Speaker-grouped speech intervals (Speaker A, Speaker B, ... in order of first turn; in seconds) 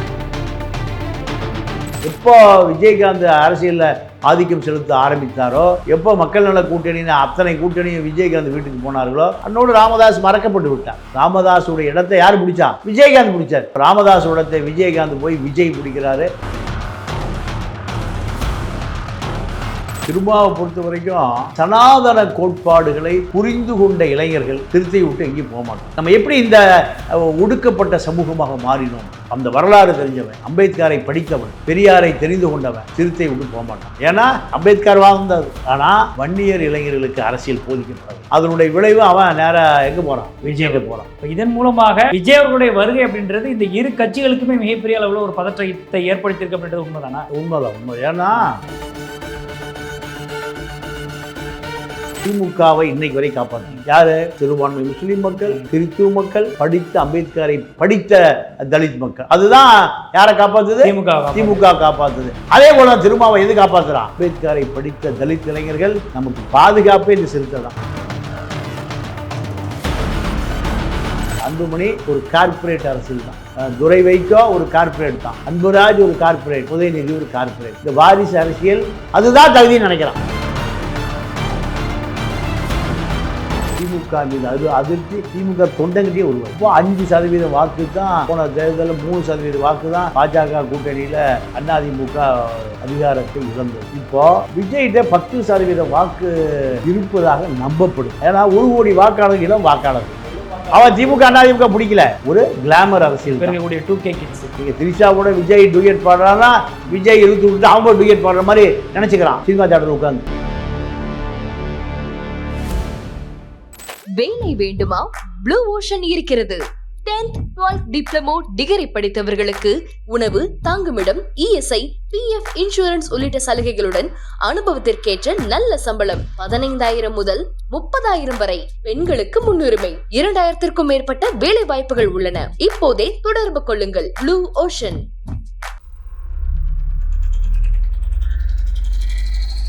Speaker A: 2.0-16.3, 20.1-41.1, 47.3-48.5, 52.2-67.7, 71.4-80.2, 83.8-100.2, 100.7-103.5, 104.6-110.2
Speaker B: 41.2-47.3, 60.8-61.6, 103.4-104.5
Speaker C: 114.1-135.0